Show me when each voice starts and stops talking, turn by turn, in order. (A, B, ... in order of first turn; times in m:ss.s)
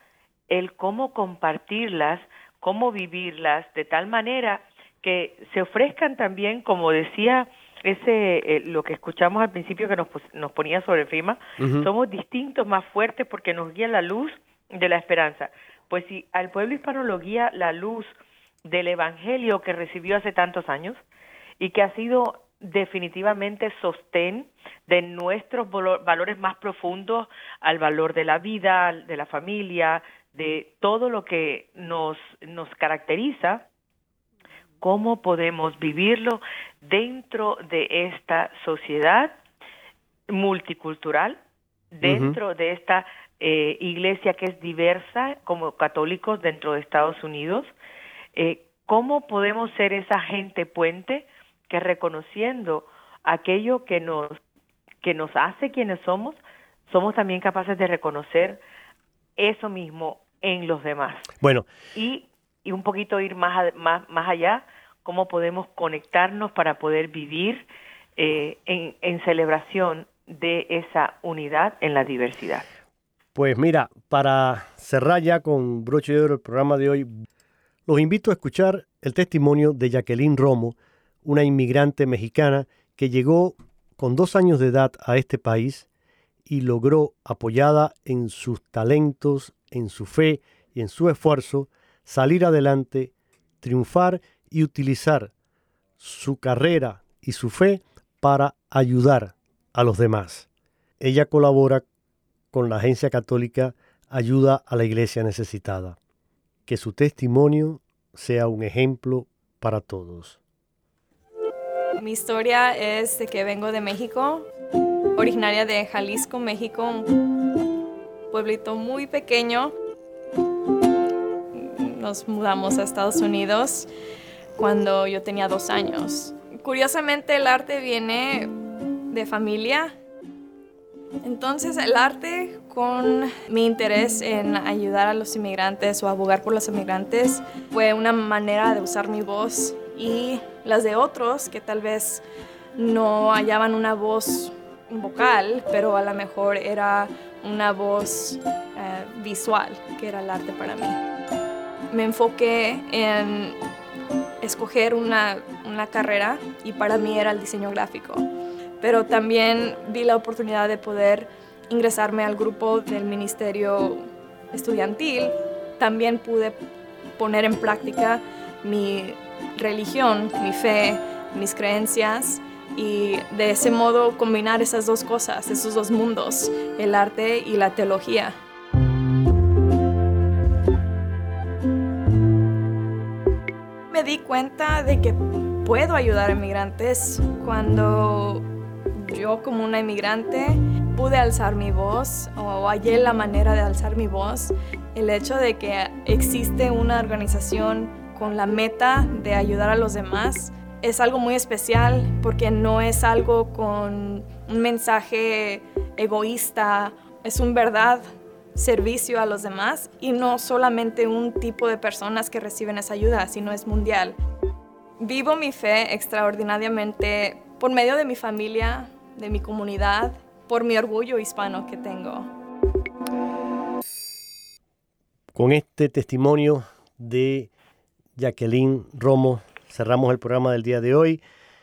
0:00.5-0:18.1 A
0:11.6-0:11.9 B
0:18.6-0:21.0 A
0:21.6-0:33.6 A
0:34.8-0:39.3 A
0:40.3-0:41.4 A
0:41.9-0:47.7 A
0:42.0-0:42.4 B
0:48.4-0:54.4 A
0:55.0-0:58.6 A
0:59.4-1:01.3 A
1:01.4-1:01.7 B
1:01.9-1:07.6 A
1:08.2-1:12.6 A
1:13.3-1:17.1 B
1:17.9-1:25.9 B
1:26.5-1:35.3 B
1:36.0-1:40.5 B
1:41.0-1:41.8 B
1:42.5-1:46.0 B
1:46.7-1:50.4 B
1:52.0-1:54.4 C
1:55.2-1:57.1 C
1:58.3-1:59.7 C
2:01.5-2:03.9 C
2:04.6-2:08.5 C
2:09.1-2:09.9 C
2:11.2-2:22.2 C
2:22.8-2:31.0 C
2:31.9-2:33.6 C
2:34.4-2:38.3 C
2:38.8-2:46.6 C
2:47.2-2:58.4 C
3:03.9-3:08.4 C
3:09.0-3:28.0 C
3:28.6-3:34.2 C
3:35.0-3:42.3 C
3:45.3-3:47.5 B
3:48.2-3:51.2 B